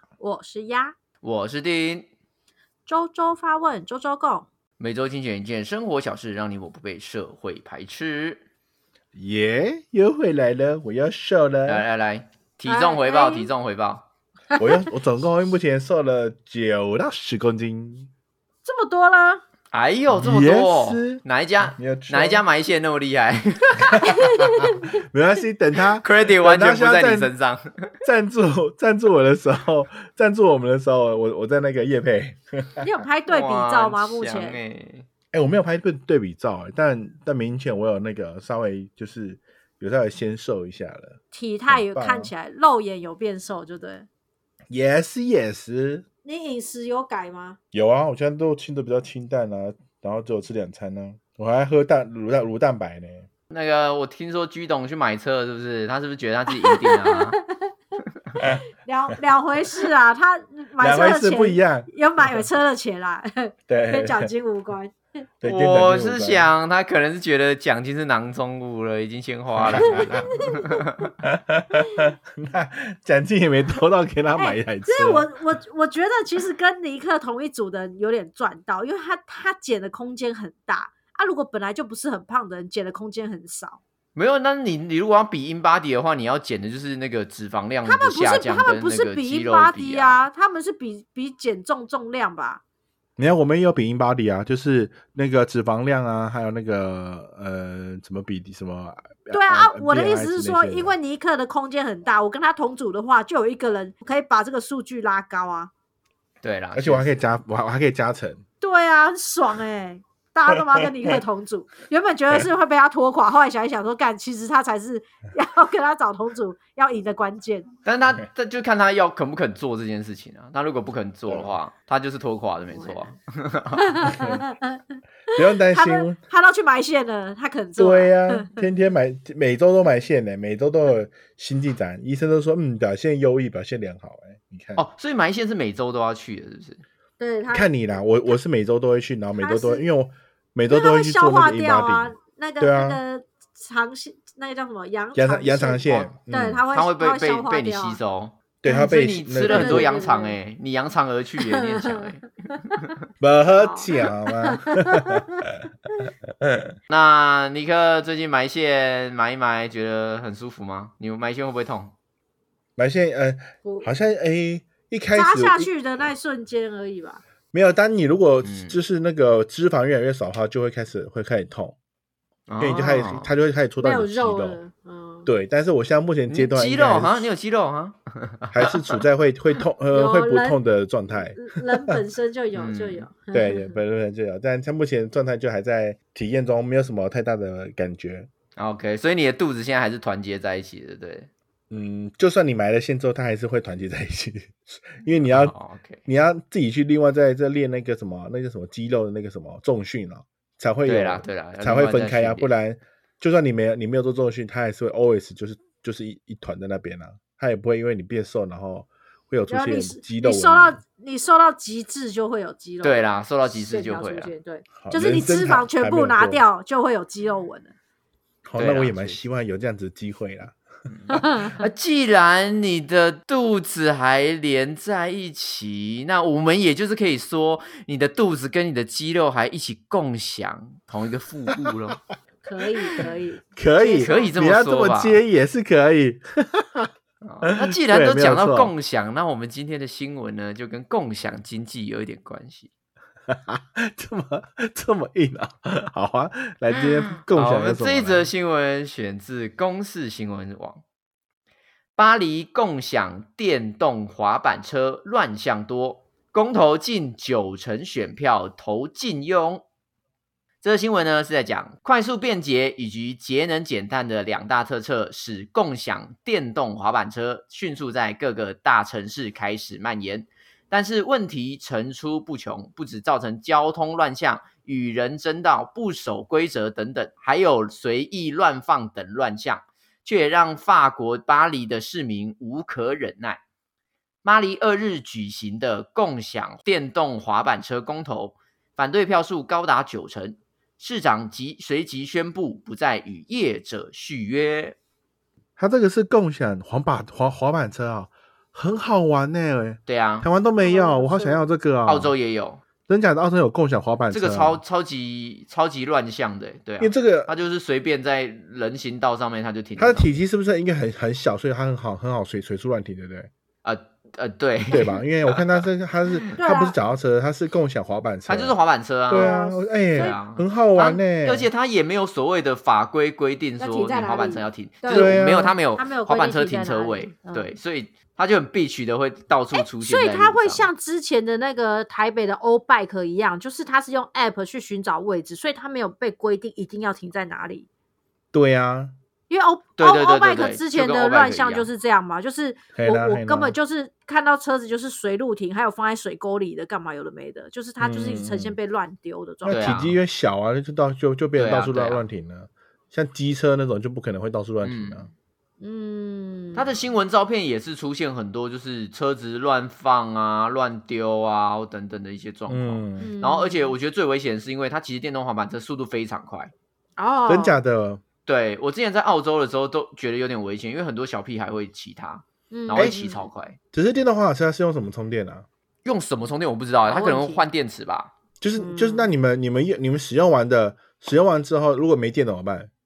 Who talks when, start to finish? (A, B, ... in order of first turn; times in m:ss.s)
0:00.2-0:01.0 A
0:01.2-0:02.1 B
0:02.9-0:04.5 A
0:04.8-0:08.4 B
0:09.2-0:11.8 C
0:11.7-0:14.0 B
0:12.7-0:13.5 A
0:14.6-0:18.1 C
0:18.6-0:19.4 A
0:19.7-0:24.2 B
0:20.1-0:22.4 C
0:23.9-0:24.2 C
0:24.0-0:24.9 A
0:25.0-0:27.3 C
0:26.0-0:27.9 B
0:28.0-0:32.8 C
0:32.8-0:34.6 A
0:33.3-0:35.1 B
0:35.3-0:42.3 C
0:41.3-0:44.1 A
0:44.7-0:46.0 C
0:46.2-0:47.6 A
0:47.7-0:53.3 C
0:53.5-0:57.4 B
0:56.5-0:57.7 A
0:58.4-0:58.6 C
0:58.4-1:05.0 A
1:00.8-1:02.4 C
1:03.7-1:04.3 C
1:05.4-1:06.5 C
1:05.4-1:11.1 B
1:09.6-1:10.3 C
1:09.8-1:10.6 A
1:11.2-1:15.3 C
1:14.3-1:23.8 A
1:24.2-1:30.2 B
1:27.8-1:32.6 A
1:33.2-1:40.9 C
1:39.3-1:45.7 A
1:46.4-1:47.2 B
1:46.7-1:48.4 C
1:48.6-1:57.7 A
1:50.8-1:51.2 C
1:57.8-2:04.1 B
2:01.3-2:01.6 C
2:02.7-2:03.1 A
2:03.8-2:08.6 A
2:04.1-2:04.4 C
2:05.3-2:06.2 C
2:07.8-2:14.8 C
2:14.8-2:16.8 B
2:17.2-2:17.7 A
2:17.5-2:23.0 C
2:19.4-2:19.9 A
2:20.7-2:28.0 A
2:25.2-2:26.6 C
2:25.8-2:26.1 B
2:26.7-2:32.3 B
2:28.6-2:30.0 C
2:28.7-2:29.0 A
2:29.5-2:30.4 A
2:31.4-2:32.2 A
2:33.2-2:35.5 C
2:33.5-2:35.4 A
2:36.4-2:36.7 C
2:36.9-2:41.9 B
2:42.8-2:45.7 C
2:43.6-2:43.9 A
2:45.1-2:47.2 A
2:47.5-2:51.8 C
2:48.4-2:48.8 B
2:52.5-2:53.3 B
2:52.6-2:54.6 C
2:53.8-2:55.3 A
2:55.3-2:57.3 C
2:56.3-2:59.0 B
2:58.5-3:01.9 C
2:59.9-3:00.6 A
3:01.4-3:03.8 A
3:02.5-3:03.1 B
3:03.3-3:08.3 C
3:08.6-3:11.3 B
3:11.7-3:15.5 C
3:15.3-3:16.0 B
3:16.1-3:30.8 C
3:20.8-3:22.5 B
3:29.5-3:37.7 A
3:32.8-3:34.3 B
3:34.8-3:36.4 C
3:38.5-3:40.6 C
3:38.6-3:39.2 B
3:40.9-3:52.0 B
3:41.1-3:41.6 A
3:52.4-3:54.3 A
3:53.6-3:56.9 C
3:54.0-3:55.2 B
3:57.2-4:02.7 B
3:57.4-3:58.7 C
4:03.3-4:08.3 C
4:06.7-4:10.8 B
4:12.0-4:19.6 B
4:20.6-4:43.4 B
4:44.2-4:54.8 B
4:55.6-5:02.1 C
4:59.9-5:00.3 B
5:00.6-5:01.5 A
5:01.9-5:02.6 B
5:02.9-5:04.6 C
5:04.1-5:10.1 B
5:06.8-5:07.3 C
5:09.8-5:13.3 C
5:13.6-5:16.2 B
5:14.7-5:18.6 C
5:16.4-5:16.8 A
5:18.3-5:19.4 B
5:19.1-5:21.5 C
5:19.1-5:20.2 A
5:19.9-5:30.7 B
5:23.6-5:27.6 A
5:24.9-5:25.5 C
5:29.5-5:37.7 A
5:38.3-5:38.9 C
5:39.3-5:49.7 A
5:39.8-5:41.7 B
5:42.8-5:43.6 C
5:47.8-5:48.6 C
5:49.4-5:55.1 C
5:49.5-5:50.0 B
5:51.4-5:52.0 B
5:54.6-5:55.1 B
5:55.6-5:56.8 A
5:56.6-6:06.5 B
6:02.5-6:03.1 C
6:03.0-6:03.8 A
6:07.0-6:07.6 A
6:07.3-6:08.0 C
6:08.3-6:13.6 B
6:12.5-6:13.3 A
6:13.7-6:15.5 C
6:15.8-6:18.1 B
6:16.9-6:17.4 A
6:18.4-6:22.7 C
6:18.6-6:19.1 A